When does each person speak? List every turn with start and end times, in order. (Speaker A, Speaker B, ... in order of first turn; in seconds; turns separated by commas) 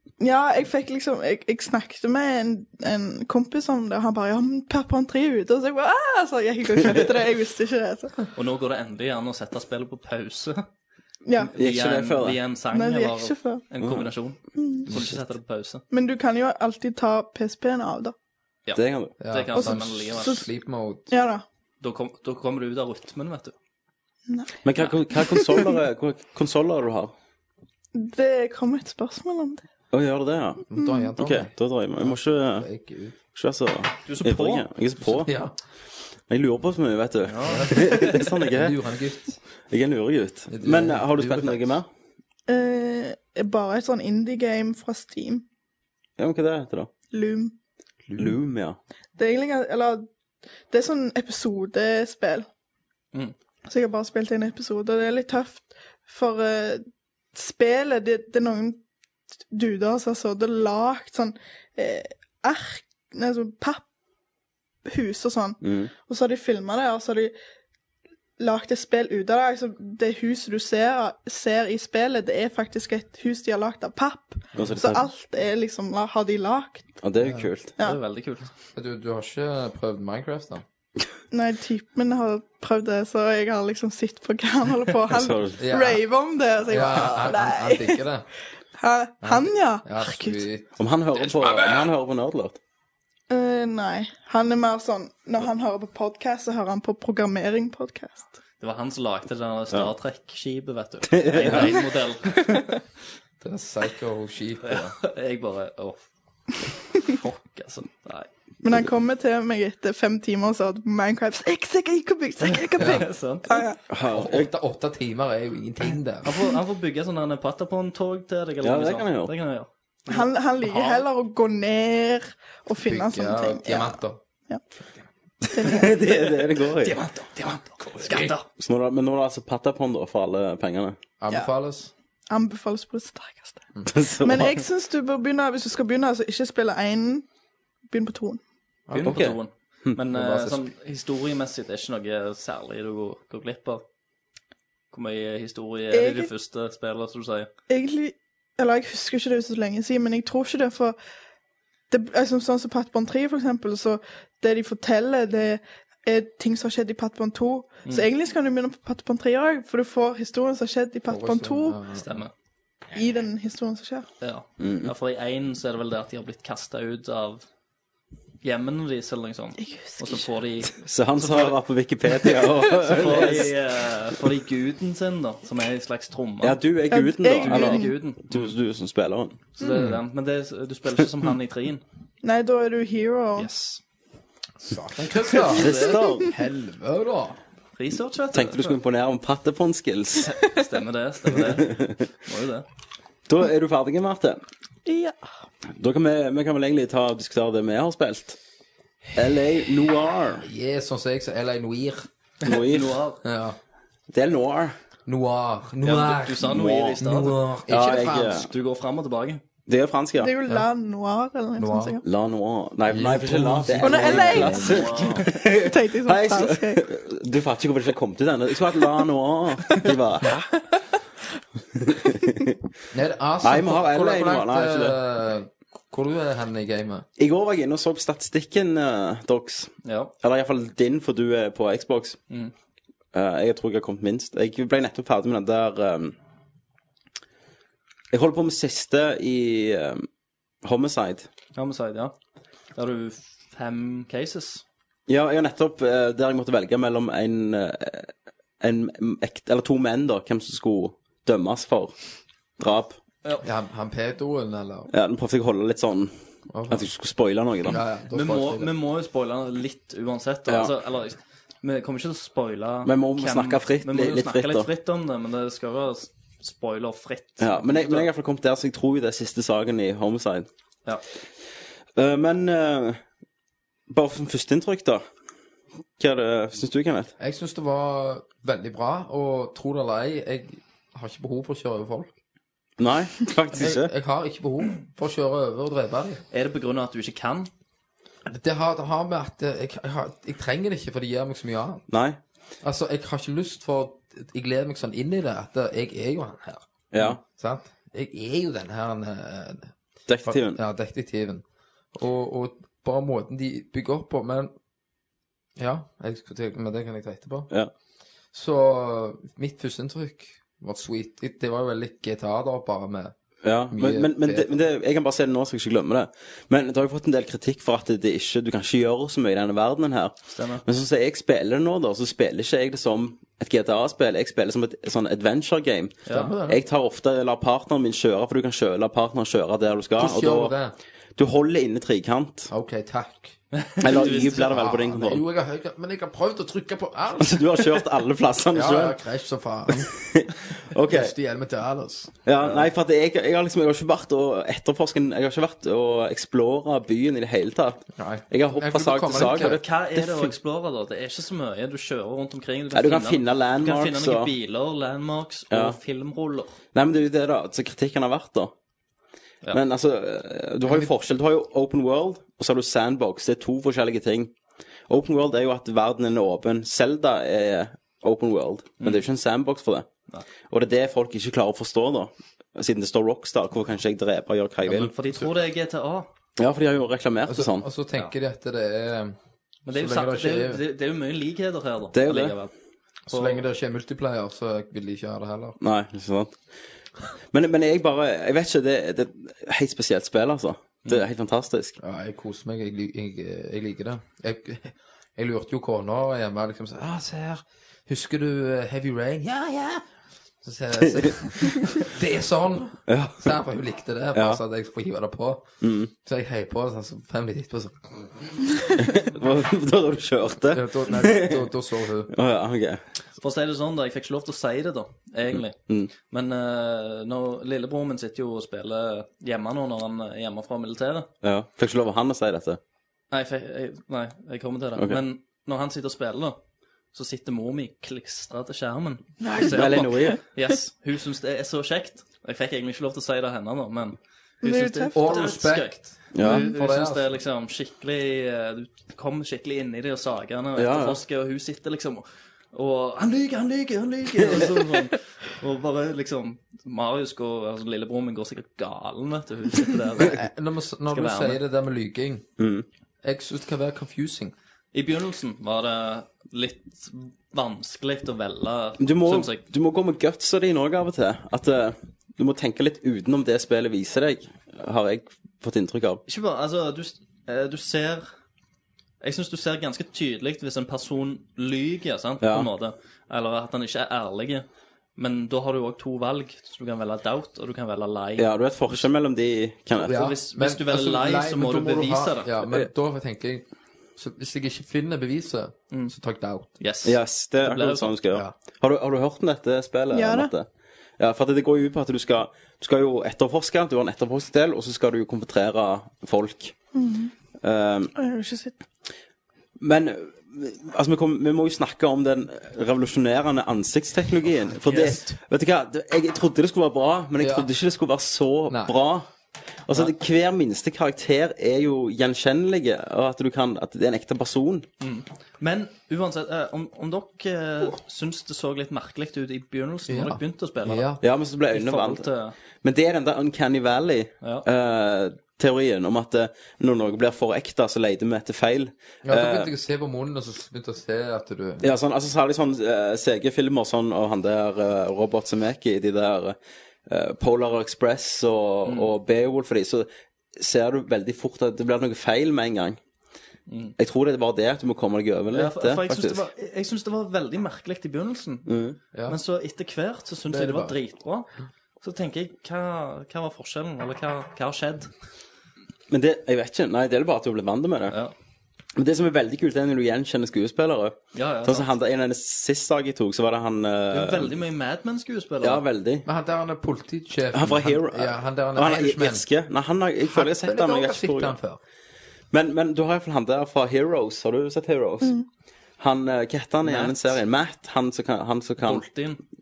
Speaker A: 0.2-8.2, Speaker B: 8.3-10.6, Speaker A: 11.2-11.5, Speaker B: 11.4-15.8, Speaker C: 11.6-12.4, Speaker A: 12.7-13.6, Speaker A: 14.6-14.9, Speaker A: 15.9-18.1, Speaker B: 18.7-20.4, Speaker C: 18.8-19.1, Speaker D: 19.2-21.1, Speaker A: 19.6-20.4, Speaker A: 21.1-21.4, Speaker B: 21.8-23.5, Speaker A: 24.3-24.6, Speaker C: 24.6-27.1, Speaker A: 25.1-25.7, Speaker A: 27.9-29.6, Speaker C: 29.9-32.7, Speaker D: 30.7-33.1, Speaker A: 30.8-31.1, Speaker C: 33.3-35.3, Speaker B: 34.0-34.6, Speaker D: 35.0-35.5, Speaker C: 36.3-38.8, Speaker B: 37.3-38.2, Speaker D: 37.4-39.4, Speaker C: 39.7-41.9, Speaker D: 40.5-41.8, Speaker A: 42.5-45.4, Speaker C: 46.2-46.9, Speaker A: 47.1-47.5, Speaker D: 48.0-48.4, Speaker C: 48.2-48.8, Speaker A: 49.2-50.1, Speaker A: 50.7-52.5, Speaker A: 53.7-58.8, Speaker A: 59.5-63.8, Speaker A: 64.8-67.3, Speaker C: 65.6-65.9, Speaker A: 68.4-76.9, Speaker C: 74.5-75.0, Speaker C: 77.0-77.7, Speaker D: 77.2-77.5, Speaker B: 77.8-78.5, Speaker D: 78.7-80.6, Speaker A: 81.3-88.0, Speaker C: 85.1-85.6, Speaker D: 85.6-86.0, Speaker D: 86.7-88.2, Speaker A: 88.8-90.4, Speaker D: 89.2-90.7, Speaker C: 90.8-92.6, Speaker A: 93.3-98.2, Speaker B: 98.6-102.6, Speaker C: 101.1-101.8, Speaker D: 103.4-105.0, Speaker B: 104.6-106.0, Speaker B: 107.0-108.3, Speaker A: 108.6-113.8, Speaker B: 112.5-113.6, Speaker D: 112.8-113.0, Speaker C: 113.9-114.5, Speaker D: 114.0-116.4, Speaker B: 116.2-121.0, Speaker C: 118.6-119.3, Speaker A: 120.1-124.6, Speaker D: 122.8-124.2, Speaker A: 125.5-126.0, Speaker C: 125.5-127.0, Speaker B: 126.8-128.4, Speaker C: 128.6-130.9, Speaker D: 131.2-131.9, Speaker A: 132.3-133.6, Speaker C: 133.9-134.6, Speaker A: 134.2-137.2, Speaker A: 137.9-138.4, Speaker D: 138.9-139.2, Speaker B: 138.9-143.8, Speaker C: 139.0-140.0, Speaker D: 140.1-140.7, Speaker B: 144.9-147.5, Speaker A: 145.9-146.3, Speaker A: 147.7-151.0, Speaker A: 151.9-161.8, Speaker D: 161.1-162.2, Speaker B: 161.9-162.3, Speaker A: 162.9-164.1, Speaker B: 164.2-167.4, Speaker C: 164.6-164.9, Speaker B: 168.4-171.5, Speaker A: 169.6-170.2, Speaker C: 170.7-173.6, Speaker B: 172.7-176.6, Speaker C: 176.4-179.4, Speaker A: 176.9-177.9, Speaker B: 177.3-178.5, Speaker B: 179.6-181.8, Speaker D: 179.7-179.9, Speaker A: 182.2-183.5, Speaker B: 183.3-183.8, Speaker D: 184.6-187.4, Speaker C: 185.5-186.3, Speaker B: 187.8-188.8, Speaker C: 188.3-190.3, Speaker B: 190.2-192.7, Speaker C: 191.4-192.0, Speaker C: 193.3-194.4, Speaker A: 194.8-195.2, Speaker C: 195.8-198.4, Speaker C: 199.1-200.5, Speaker D: 200.4-202.1, Speaker B: 202.4-203.2, Speaker C: 202.4-203.0, Speaker D: 203.2-203.6, Speaker C: 204.1-204.7, Speaker D: 205.1-208.4, Speaker B: 205.8-207.4, Speaker C: 206.4-207.0, Speaker C: 207.7-208.5, Speaker B: 208.2-209.4, Speaker C: 209.7-210.3, Speaker A: 210.2-212.0, Speaker D: 211.6-212.0, Speaker C: 212.0-220.4, Speaker D: 212.9-215.0, Speaker A: 213.8-216.8, Speaker B: 214.4-215.3, Speaker C: 221.8-222.5, Speaker D: 222.9-227.0, Speaker C: 223.4-225.0, Speaker C: 227.2-232.2, Speaker B: 229.8-230.1, Speaker C: 233.1-236.1, Speaker C: 238.1-240.1, Speaker C: 240.6-241.3, Speaker B: 241.5-242.1, Speaker B: 242.7-244.6, Speaker C: 245.1-251.9, Speaker C: 252.6-253.0, Speaker D: 253.4-254.9, Speaker C: 254.9-256.1, Speaker D: 256.5-256.9, Speaker C: 256.7-257.8, Speaker D: 257.6-258.7, Speaker B: 258.1-268.1, Speaker C: 262.8-264.7, Speaker C: 267.4-270.5, Speaker C: 271.9-273.0, Speaker C: 273.9-275.0, Speaker C: 276.0-277.1, Speaker D: 277.2-282.1, Speaker C: 282.8-283.9, Speaker D: 283.5-286.2, Speaker B: 286.3-287.5, Speaker D: 288.3-291.8, Speaker C: 291.9-292.2, Speaker D: 292.6-299.7, Speaker C: 296.9-297.2, Speaker C: 300.1-300.6, Speaker D: 300.2-304.5, Speaker D: 305.6-307.5, Speaker D: 308.3-313.1, Speaker C: 313.4-330.5, Speaker D: 313.7-314.5, Speaker B: 320.3-320.6, Speaker B: 326.1-326.3, Speaker D: 326.1-326.6, Speaker D: 330.0-330.7, Speaker C: 331.1-332.5, Speaker D: 332.5-337.5, Speaker B: 333.5-334.2, Speaker C: 333.8-335.2, Speaker C: 337.2-339.0, Speaker D: 338.5-339.9, Speaker C: 339.8-341.1, Speaker D: 340.9-342.2, Speaker C: 342.2-350.3, Speaker D: 347.9-349.6, Speaker B: 349.2-356.6, Speaker C: 352.7-354.3, Speaker C: 355.5-355.8, Speaker C: 356.7-358.5, Speaker C: 359.5-364.3, Speaker C: 364.9-369.9, Speaker C: 370.5-374.9, Speaker B: 374.7-376.1, Speaker C: 376.4-377.7, Speaker D: 377.3-379.1, Speaker B: 379.6-382.5, Speaker D: 379.7-380.6, Speaker C: 381.9-382.4, Speaker D: 383.1-385.6, Speaker B: 383.1-383.4, Speaker C: 385.6-386.4, Speaker C: 387.3-391.8, Speaker D: 391.8-399.8, Speaker D: 400.4-405.4, Speaker C: 402.9-403.3, Speaker C: 404.1-404.4, Speaker C: 405.6-405.9, Speaker D: 406.0-408.4, Speaker C: 408.8-411.5, Speaker D: 410.5-412.1, Speaker C: 412.1-412.8, Speaker B: 413.2-421.1, Speaker C: 415.6-415.9, Speaker C: 421.2-422.6, Speaker B: 423.1-426.4, Speaker B: 426.9-450.2, Speaker C: 429.4-430.2, Speaker A: 434.4-435.1, Speaker D: 434.9-437.1, Speaker C: 436.1-436.5, Speaker C: 440.6-441.0, Speaker D: 450.0-452.2, Speaker B: 450.9-451.4, Speaker C: 452.4-452.6, Speaker D: 453.0-454.3, Speaker B: 454.7-459.4, Speaker C: 458.8-466.0, Speaker B: 466.1-468.0, Speaker B: 469.0-474.4, Speaker C: 472.2-472.5, Speaker B: 475.0-478.8, Speaker C: 478.2-480.0, Speaker D: 479.8-483.4, Speaker B: 479.9-482.3, Speaker D: 484.0-486.5, Speaker B: 486.6-487.9, Speaker C: 486.8-490.5, Speaker A: 489.9-490.3, Speaker C: 491.0-496.5, Speaker A: 496.7-497.1, Speaker C: 497.4-497.9, Speaker A: 497.9-498.5, Speaker C: 499.6-509.1, Speaker B: 504.6-505.1, Speaker D: 507.2-507.5, Speaker D: 508.5-508.7, Speaker C: 509.7-514.6, Speaker B: 514.8-520.9, Speaker D: 519.9-521.0, Speaker C: 521.0-522.0, Speaker B: 521.5-522.3, Speaker C: 522.6-529.5, Speaker D: 529.0-531.7, Speaker C: 531.6-536.4, Speaker C: 536.9-542.8, Speaker B: 543.5-543.7, Speaker C: 543.8-546.2, Speaker B: 545.3-548.5, Speaker C: 548.5-548.8, Speaker B: 549.1-551.3, Speaker D: 550.3-550.8, Speaker B: 551.8-554.9, Speaker C: 555.9-558.0, Speaker C: 558.8-564.3, Speaker B: 561.1-561.7, Speaker B: 563.9-565.6, Speaker C: 565.4-566.0, Speaker D: 566.0-569.2, Speaker C: 567.3-571.4, Speaker D: 570.0-571.6, Speaker C: 572.3-575.1, Speaker C: 575.8-578.9, Speaker B: 576.6-577.1, Speaker B: 578.6-579.2